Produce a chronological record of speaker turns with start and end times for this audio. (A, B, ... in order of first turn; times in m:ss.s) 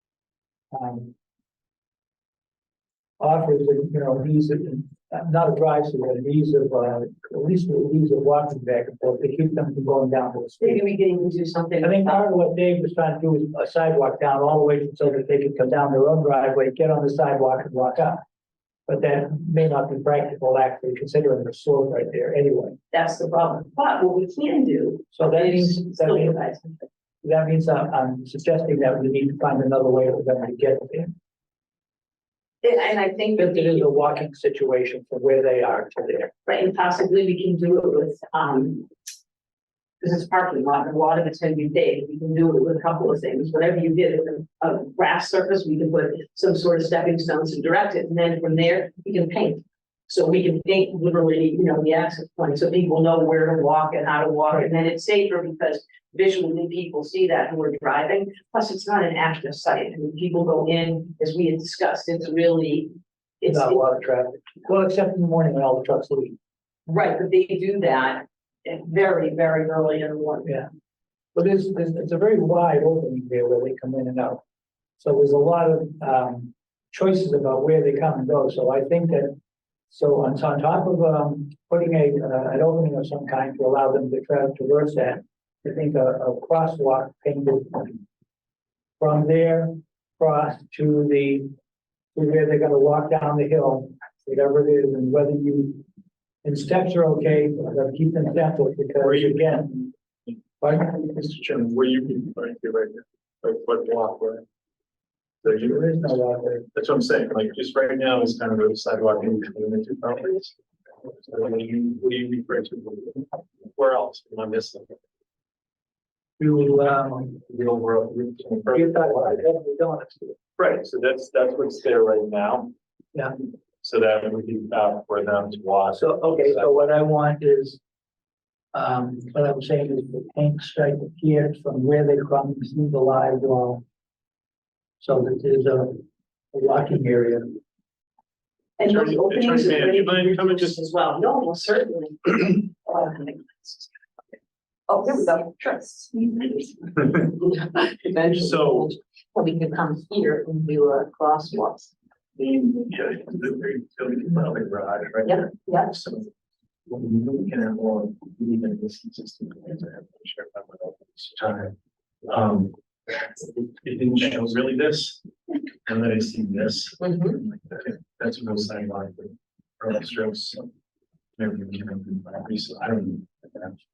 0:00.7-0:01.1 A
0:03.2-0:10.8 A
0:10.6-0:12.2 B
0:11.8-0:18.2 A
0:18.9-0:22.8 A
0:22.9-0:26.8 B
0:25.1-0:26.4 A
0:27.2-0:31.2 A
0:32.6-0:34.1 B
0:33.4-0:36.3 A
0:36.5-0:38.9 B
0:40.0-1:04.0 B
1:03.5-1:06.4 A
1:06.9-1:10.5 B
1:11.4-1:14.4 A
1:15.0-1:19.4 A
1:19.9-1:28.0 A
1:29.0-1:31.5 A
1:32.2-1:35.8 A
1:36.4-1:39.9 A
1:39.0-1:39.5 C
1:40.6-1:41.2 A
1:41.1-1:44.4 C
1:45.4-1:46.2 C
1:45.5-1:46.7 A
1:46.7-1:50.6 C
1:51.2-1:55.0 C
1:56.4-1:57.4 A
1:57.3-1:59.4 C
1:58.7-2:00.4 A
2:00.6-2:02.7 C
2:03.8-2:06.7 C
2:06.0-2:07.8 A
2:08.7-2:13.8 A
2:15.0-2:17.6 A
2:18.8-2:23.9 B
2:18.9-2:20.8 C
2:24.9-2:31.9 B
2:28.3-2:28.9 C
2:32.4-2:36.3 C
2:35.3-2:35.9 B
2:36.9-2:42.8 C
2:43.4-2:45.2 C
2:45.9-2:50.7 C
2:47.0-2:47.4 B
2:51.4-2:53.8 C